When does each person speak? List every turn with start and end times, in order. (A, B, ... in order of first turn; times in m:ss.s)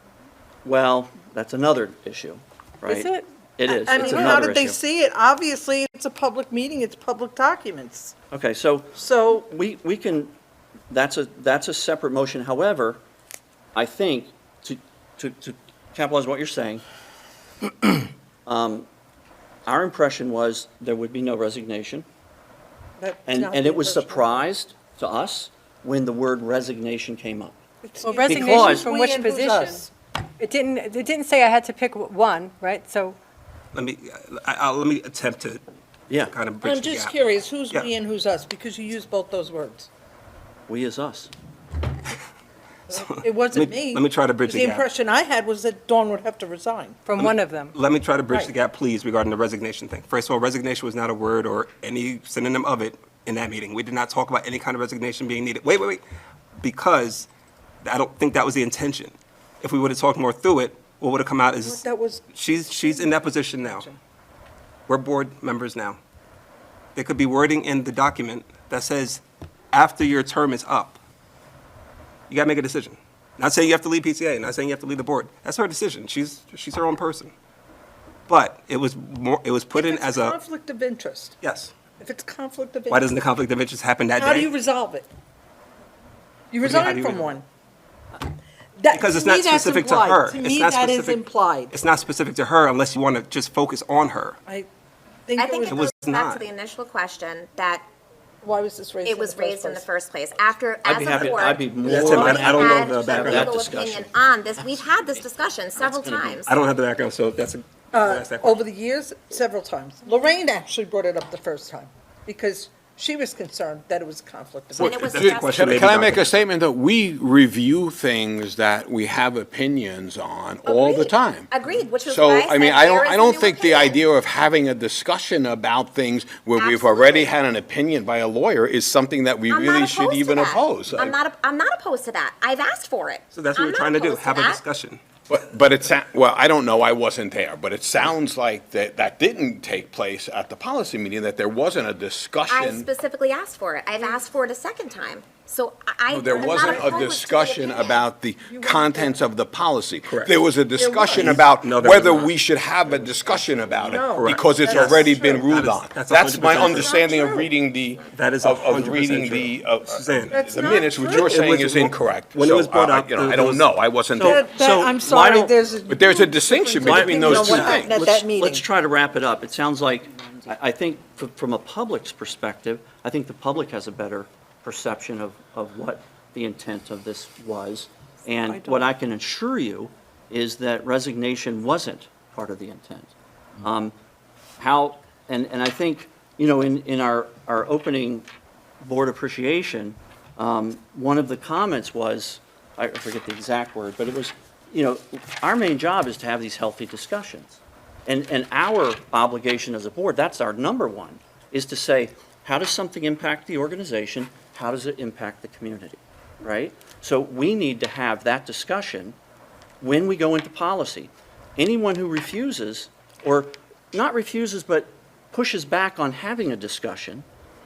0:00.6-0:04.8 A
0:02.8-0:03.2 B
0:03.6-0:08.1 C
0:03.8-0:04.4 B
0:08.3-0:10.3 A
0:08.9-0:09.4 C
0:10.9-0:13.0 A
0:13.7-0:16.8 A
0:18.4-0:18.8 A
0:19.6-0:22.0 A
0:23.0-0:24.5 C
0:23.2-0:27.6 A
0:27.8-0:29.9 C
0:28.0-0:29.9 B
0:28.3-0:28.9 A
0:30.4-0:33.2 B
0:33.7-0:35.6 D
0:36.1-0:36.3 A
0:36.3-0:37.1 D
0:36.6-0:39.9 C
0:40.7-0:41.3 A
0:42.9-0:44.8 D
0:42.9-0:47.0 C
0:47.0-0:47.7 B
0:47.2-0:56.0 D
0:56.6-0:57.3 D
0:57.8-1:03.9 D
1:01.6-1:04.0 C
1:04.9-1:06.0 D
1:06.9-1:11.0 D
1:12.3-1:17.3 D
1:18.3-1:20.4 D
1:19.7-1:21.3 C
1:21.4-1:21.7 D
1:22.0-1:23.1 C
1:22.9-1:24.5 D
1:24.2-1:25.1 C
1:26.5-1:27.4 C
1:26.6-1:27.3 D
1:28.8-1:31.7 C
1:28.9-1:34.4 D
1:35.3-1:35.8 C
1:35.4-1:37.8 E
1:35.7-1:36.4 D
1:38.4-1:39.8 C
1:39.0-1:46.5 E
1:40.8-1:45.2 A
1:41.1-1:43.5 D
1:45.8-1:46.4 A
1:46.4-1:48.6 D
1:47.9-1:55.2 C
1:54.8-1:56.3 D
1:54.8-1:55.9 E
1:55.1-2:01.5 F
2:00.6-2:04.0 E
2:02.0-2:11.2 F
2:06.6-2:07.3 E
2:09.5-2:14.6 E
2:13.3-2:15.0 D
2:15.3-2:22.9 F
2:22.5-2:28.0 E
2:26.1-2:44.4 F
2:26.4-2:26.8 C
2:28.4-2:29.2 C
2:30.0-2:30.3 D
2:30.8-2:31.4 C
2:31.1-2:37.0 D
2:33.8-2:35.5 C
2:36.5-2:37.5 C
2:38.1-2:40.4 D
2:40.3-2:41.3 C
2:41.1-2:43.7 D
2:44.1-2:45.5 A
2:44.2-2:48.7 C
2:45.9-2:48.0 F
2:46.8-2:47.6 A
2:47.2-2:48.2 D
2:48.3-3:03.9 A
3:04.6-3:08.2 A
3:08.8-3:29.1 A
3:29.8-3:37.2 A